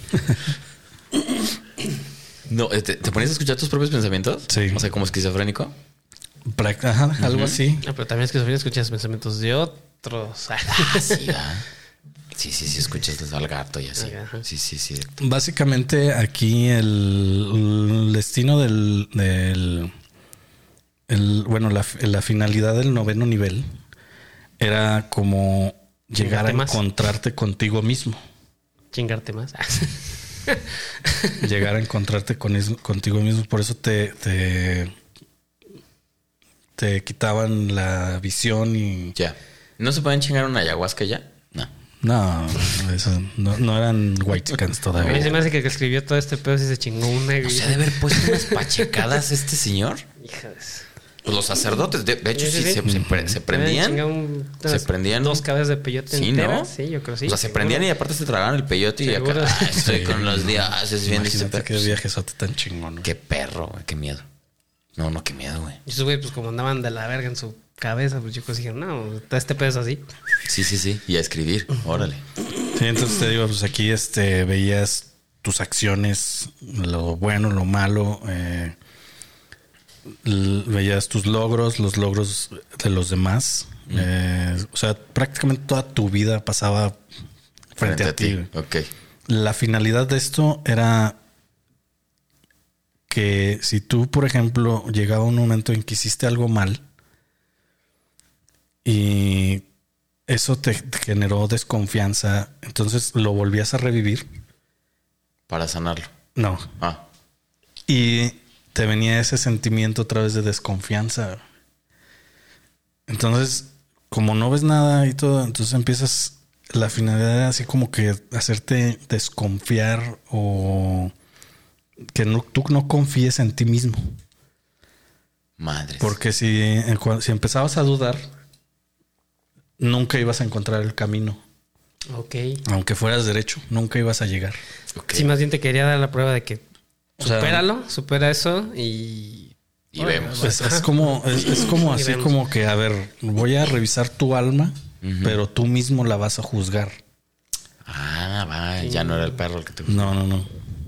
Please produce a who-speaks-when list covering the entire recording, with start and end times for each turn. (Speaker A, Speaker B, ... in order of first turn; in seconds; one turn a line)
Speaker A: 2.5-5.7
Speaker B: 4.5-4.8
Speaker B: 6.5-7.8
Speaker A: 7.2-7.6
Speaker C: 7.8-11.3
Speaker A: 10.7-11.6
Speaker A: 12.3-15.1
Speaker C: 14.0-14.4
Speaker B: 15.2-19.9
Speaker B: 21.1-23.6
Speaker B: 24.6-28.2
Speaker C: 26.2-26.8
Speaker C: 28.9-31.4
Speaker B: 31.4-34.9
Speaker B: 36.8-39.1
Speaker A: 39.1-41.7
Speaker B: 42.0-45.3
Speaker A: 45.0-45.3
Speaker C: 45.0-48.9
Speaker A: 47.4-50.0
Speaker C: 50.2-50.9
Speaker A: 51.2-54.0
Speaker C: 52.3-52.8
Speaker B: 52.8-53.4
Speaker C: 53.5-57.9
Speaker A: 54.7-55.4
Speaker A: 56.1-56.7
Speaker A: 57.2-62.0
Speaker C: 59.0-59.8
Speaker B: 59.7-63.1
Speaker A: 63.0-64.2
Speaker A: 65.0-65.8
Speaker C: 65.8-70.0
Speaker A: 70.5-72.2
Speaker B: 72.7-78.7
Speaker B: 80.1-87.0
Speaker B: 87.7-88.5
Speaker A: 87.8-88.9
Speaker B: 89.3-91.2
Speaker B: 93.1-96.8
Speaker B: 98.8-99.6
Speaker B: 100.3-104.2
Speaker A: 105.5-106.1
Speaker B: 106.3-106.7
Speaker B: 107.9-111.4
Speaker B: 113.1-121.1
Speaker B: 122.1-124.2
Speaker A: 125.6-126.2
Speaker B: 126.0-128.3
Speaker B: 129.8-131.4
Speaker C: 132.1-132.6
Speaker B: 132.7-134.6
Speaker A: 134.9-135.3
Speaker C: 135.1-136.6
Speaker B: 137.2-137.6
Speaker C: 137.2-142.4
Speaker A: 139.9-140.6
Speaker B: 140.4-147.0
Speaker A: 145.0-145.4
Speaker A: 147.8-150.1
Speaker C: 148.8-149.4
Speaker B: 149.9-150.6